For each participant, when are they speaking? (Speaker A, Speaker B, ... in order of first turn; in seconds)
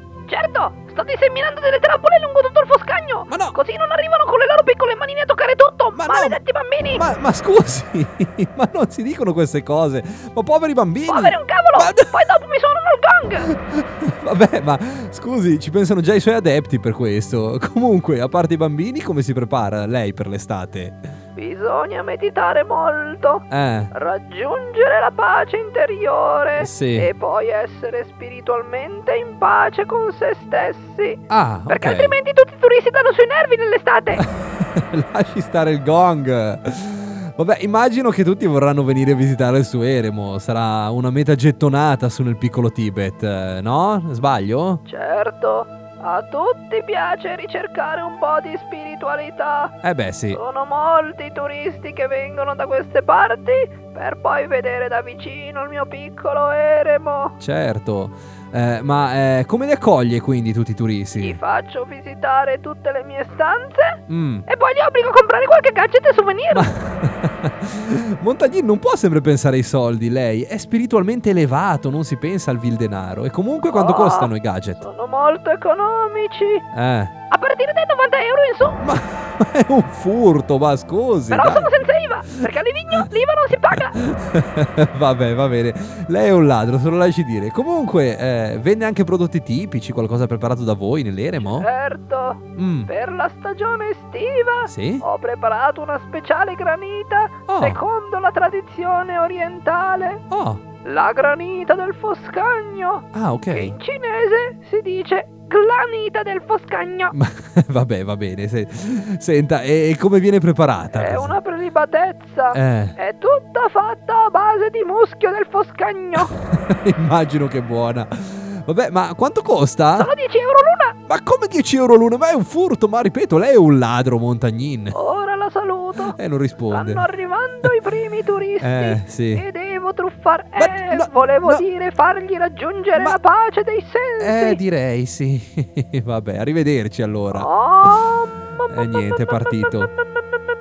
Speaker A: 0.3-7.1, 11.1-13.5, 21.4-34.3, 44.9-49.8, 50.3-57.4, 61.1-66.7, 73.7-76.6, 77.3-78.8, 81.3-84.0, 91.4-100.2, 100.8-107.2, 110.9-116.3, 120.0-121.0, 124.9-126.2, 126.7-134.6, 137.3-138.7
Speaker B: 3.3-3.6, 5.9-12.1, 13.4-21.1, 23.5-23.9, 26.6-27.1, 31.3-32.1, 34.2-44.8, 49.8-50.4, 57.4-61.4, 64.1-64.5, 66.5-74.8, 76.7-77.1, 78.8-81.7, 82.3-83.1, 83.7-91.7, 92.6-92.9, 94.7-95.0, 97.5-97.8, 100.3-100.6, 103.1-103.8, 107.1-111.4, 112.5-113.0, 116.2-120.1, 121.1-125.0, 126.1-127.1, 128.6-129.4, 130.6-131.6, 134.2-138.0, 138.7-139.9